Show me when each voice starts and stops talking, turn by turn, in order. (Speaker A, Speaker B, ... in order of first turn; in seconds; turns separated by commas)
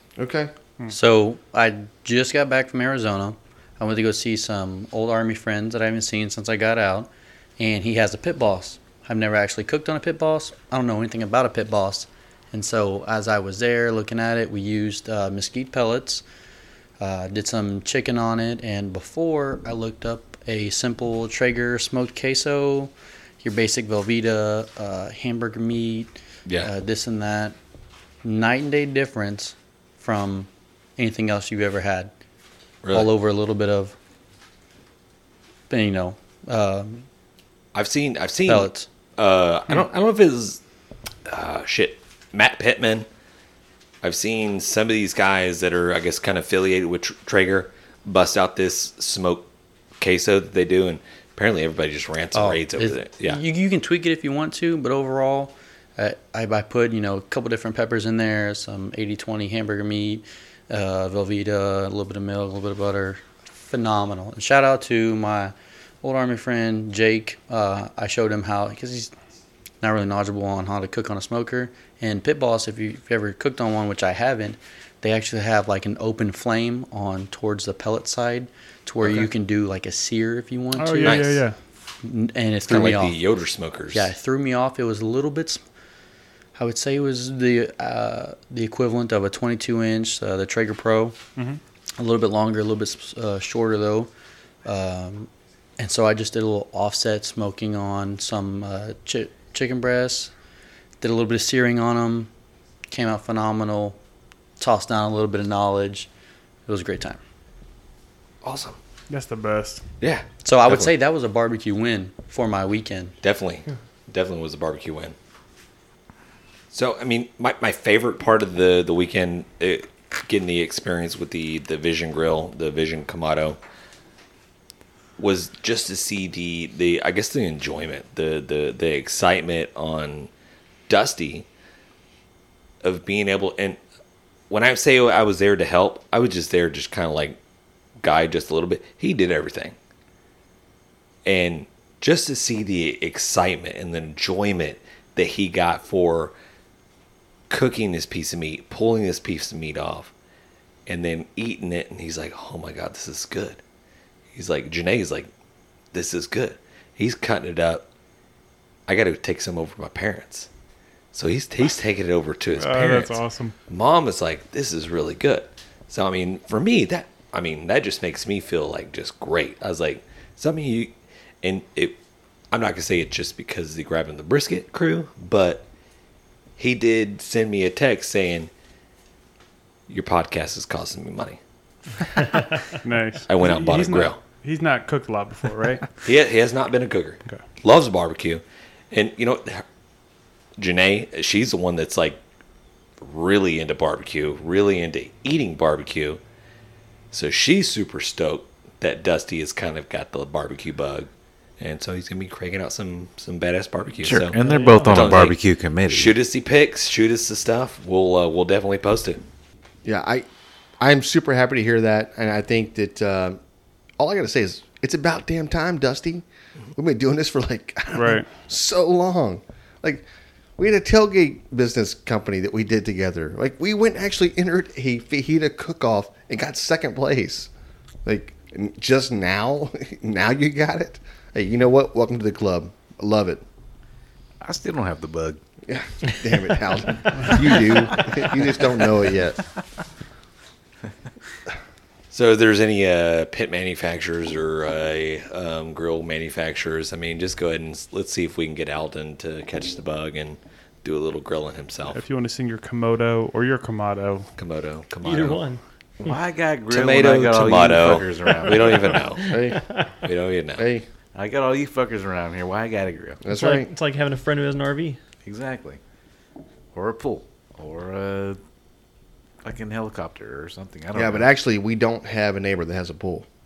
Speaker A: 0.2-0.5, Speaker B: 0.9-16.2, Speaker B: 17.0-27.6, Speaker B: 28.2-32.1, Speaker C: 32.8-33.1, Speaker B: 32.9-33.9, Speaker B: 35.7-37.0, Speaker C: 37.7-40.6, Speaker B: 38.5-38.9, Speaker C: 41.3-43.1, Speaker C: 44.0-49.5, Speaker C: 50.0-53.4, Speaker B: 52.3-69.1, Speaker B: 69.8-81.2, Speaker D: 80.8-81.6, Speaker C: 81.0-81.4, Speaker B: 82.0-83.2, Speaker C: 82.7-84.1, Speaker B: 83.9-85.6, Speaker B: 86.5-91.2, Speaker B: 92.0-94.1, Speaker B: 94.6-100.3, Speaker B: 101.0-102.3, Speaker B: 102.9-104.0, Speaker B: 104.6-106.1, Speaker B: 106.7-107.2, Speaker C: 108.4-108.8, Speaker D: 109.1-109.8, Speaker C: 110.0-110.9, Speaker B: 110.4-113.1, Speaker C: 113.2-115.1, Speaker C: 116.7-123.6, Speaker C: 125.2-130.3, Speaker C: 130.9-131.4, Speaker C: 132.8-133.8, Speaker C: 134.5-137.4, Speaker C: 138.0-139.8, Speaker C: 141.2-146.3, Speaker C: 147.5-150.1, Speaker C: 150.9-153.6, Speaker C: 154.3-155.3, Speaker C: 155.9-157.8, Speaker C: 158.9-160.5, Speaker C: 161.1-172.0, Speaker E: 162.6-163.5, Speaker C: 172.5-175.7, Speaker C: 176.6-178.5, Speaker C: 179.9-181.4, Speaker D: 182.8-185.8, Speaker C: 183.3-184.2, Speaker C: 186.0-189.6, Speaker C: 190.6-192.2, Speaker C: 193.0-196.2, Speaker C: 197.1-201.1, Speaker C: 201.6-209.2, Speaker F: 204.0-206.1, Speaker E: 204.4-205.2, Speaker A: 209.8-210.3, Speaker A: 210.8-213.4, Speaker A: 214.0-220.1, Speaker D: 217.9-218.3, Speaker A: 220.6-227.5, Speaker A: 228.0-233.4, Speaker F: 234.4-235.4, Speaker A: 235.7-239.4, Speaker C: 242.1-252.0, Speaker D: 251.9-254.3, Speaker C: 254.4-255.4, Speaker E: 255.0-255.6, Speaker F: 256.0-259.0, Speaker C: 256.7-259.4, Speaker E: 258.6-259.8, Speaker A: 259.3-259.6, Speaker C: 260.0-260.6, Speaker A: 260.6-260.9, Speaker F: 261.1-263.2, Speaker A: 263.2-263.7, Speaker E: 263.3-265.0, Speaker F: 265.2-265.8, Speaker F: 266.7-268.4, Speaker F: 269.4-271.3, Speaker A: 270.9-273.3